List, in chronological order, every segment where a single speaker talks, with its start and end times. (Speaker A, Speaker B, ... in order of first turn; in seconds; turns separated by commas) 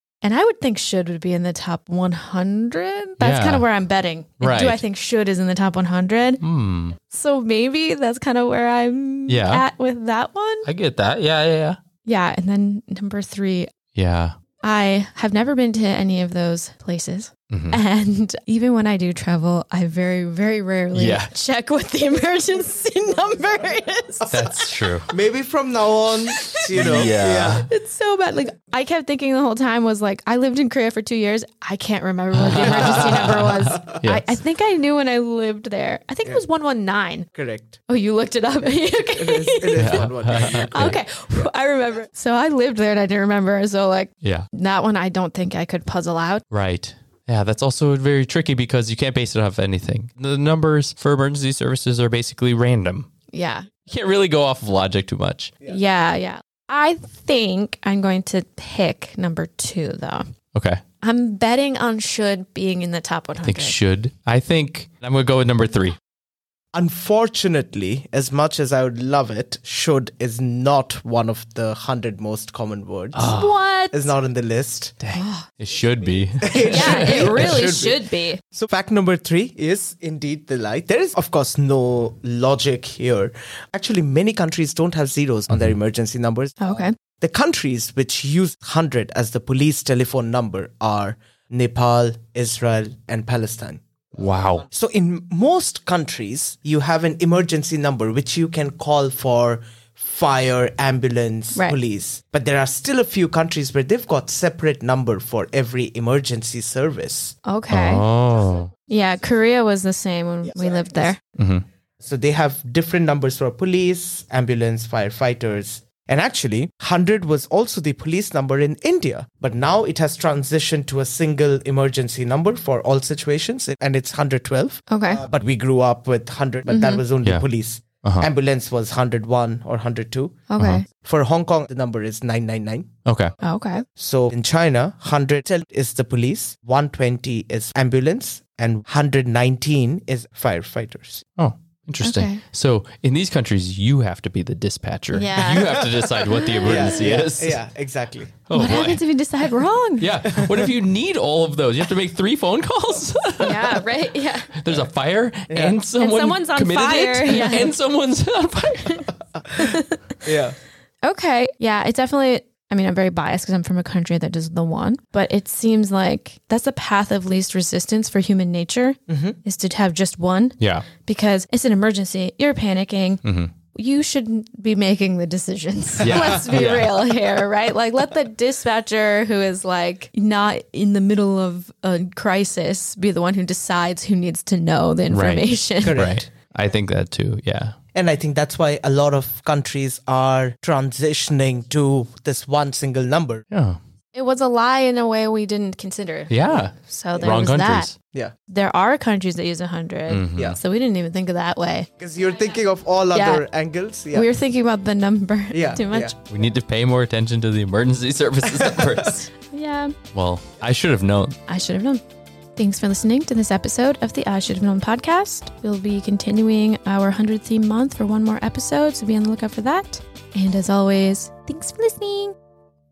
Speaker A: 0.2-6.4, Speaker B: 3.2-3.7, Speaker B: 4.4-4.8, Speaker B: 6.4-7.0, Speaker A: 7.0-10.7, Speaker B: 9.3-9.7, Speaker B: 10.6-11.8, Speaker A: 12.0-13.7, Speaker B: 13.9-14.3, Speaker A: 14.6-24.6, Speaker B: 17.5-17.8, Speaker B: 20.9-21.3, Speaker B: 24.3-25.1, Speaker C: 25.1-27.6, Speaker A: 26.4-27.1, Speaker B: 26.7-27.7, Speaker A: 27.6-37.3, Speaker B: 32.3-34.4, Speaker C: 32.5-34.0, Speaker C: 37.3-37.8, Speaker A: 37.9-46.4, Speaker C: 39.1-40.9, Speaker B: 39.7-41.0, Speaker B: 44.2-44.5, Speaker B: 46.5-53.1, Speaker A: 53.3-53.6, Speaker B: 53.9-55.5, Speaker A: 55.6-60.3, Speaker B: 60.5-60.8, Speaker A: 61.0-63.8, Speaker B: 63.4-66.0, Speaker C: 66.7-73.3, Speaker B: 73.1-73.5, Speaker A: 73.3-74.1, Speaker C: 73.9-74.9, Speaker B: 75.0-77.8, Speaker A: 75.1-75.5, Speaker C: 76.4-93.8, Speaker A: 76.6-78.4, Speaker B: 85.5-85.8, Speaker A: 86.6-86.9, Speaker B: 94.2-94.6, Speaker C: 94.7-107.3, Speaker A: 107.4-108.0, Speaker B: 107.7-108.7, Speaker A: 108.9-111.2, Speaker B: 111.4-111.6, Speaker C: 112.0-130.4, Speaker A: 124.9-125.2, Speaker A: 126.7-127.0, Speaker B: 128.0-128.3, Speaker A: 130.5-130.9, Speaker C: 131.0-132.9, Speaker B: 133.1-133.3, Speaker A: 133.4-133.8, Speaker C: 133.9-141.2, Speaker B: 141.4-147.6, Speaker A: 142.0-142.4, Speaker A: 145.1-147.1, Speaker C: 146.6-148.4, Speaker B: 148.4-149.0, Speaker A: 148.5-150.2, Speaker B: 150.0-153.9, Speaker C: 150.3-150.7, Speaker A: 153.4-154.5, Speaker B: 154.5-159.1, Speaker C: 155.5-155.8, Speaker A: 156.0-157.7, Speaker C: 159.5-160.6, Speaker A: 159.6-160.2, Speaker A: 161.0-186.0, Speaker C: 169.1-169.4, Speaker B: 170.6-170.8, Speaker B: 173.2-173.5, Speaker B: 176.0-176.9, Speaker C: 176.0-176.4, Speaker B: 185.1-187.7, Speaker C: 185.8-186.3, Speaker C: 187.9-193.4, Speaker B: 193.5-193.8, Speaker A: 194.1-197.9, Speaker B: 196.3-197.9, Speaker A: 198.5-201.9, Speaker B: 200.1-200.6, Speaker C: 202.0-204.3, Speaker A: 203.1-203.4, Speaker A: 204.1-206.2, Speaker C: 205.5-206.1, Speaker B: 206.3-209.3, Speaker C: 208.5-209.1, Speaker A: 209.4-209.9, Speaker B: 210.1-211.4, Speaker A: 211.5-212.0, Speaker A: 212.6-222.3